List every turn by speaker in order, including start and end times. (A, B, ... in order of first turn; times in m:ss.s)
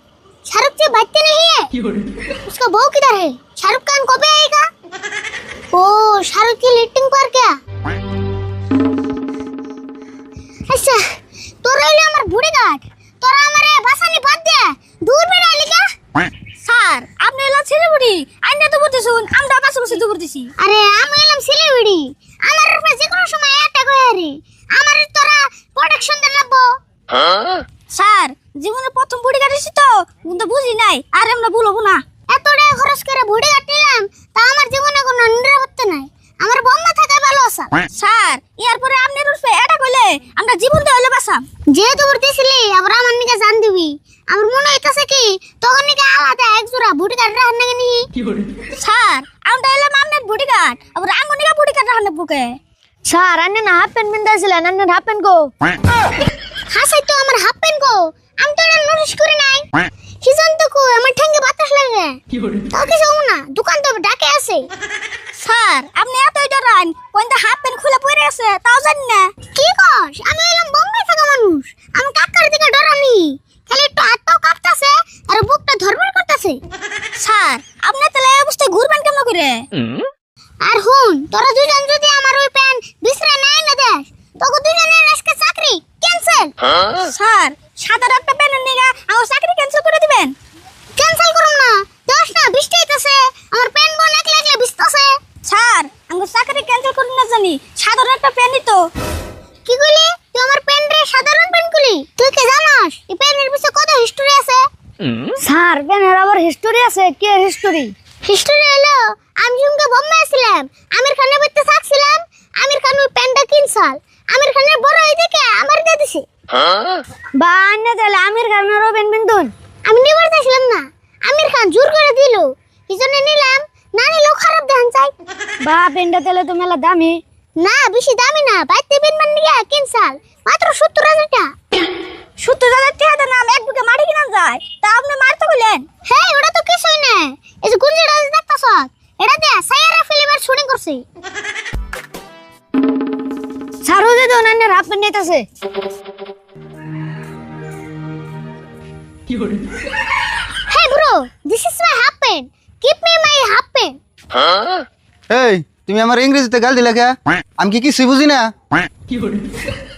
0:00.5-0:01.7 A
0:02.4-0:04.7 A
0:05.7-0:07.6 A
0:10.7-0:11.0 A
0:11.6-0:15.8 A
0:16.6-0:20.5 B
0:20.6-0:26.7 A
0:27.9-0:32.0 B
0:32.3-0:37.7 A
0:37.9-0:41.4 B
0:41.7-0:48.0 A
0:48.8-0:52.6 B
0:53.0-0:55.5 C
0:56.7-0:59.6 A
1:00.2-1:02.2 A
1:02.7-1:04.6 A
1:05.4-1:09.3 B
1:09.5-1:16.6 A
1:17.2-1:19.6 B
1:20.6-1:26.5 A
1:26.9-1:30.3 B
1:31.0-1:35.2 A
1:35.4-1:38.9 B
1:39.6-1:44.6 A
1:45.4-1:47.9 C
1:48.2-1:56.2 A
1:57.4-1:59.5 C
1:59.9-2:05.1 A
2:05.6-2:07.2 C
2:07.6-2:11.5 A
2:12.4-2:15.8 B
2:16.0-2:21.0 A
2:23.8-2:25.4 C
2:30.7-2:34.0 A
2:35.3-2:38.5 D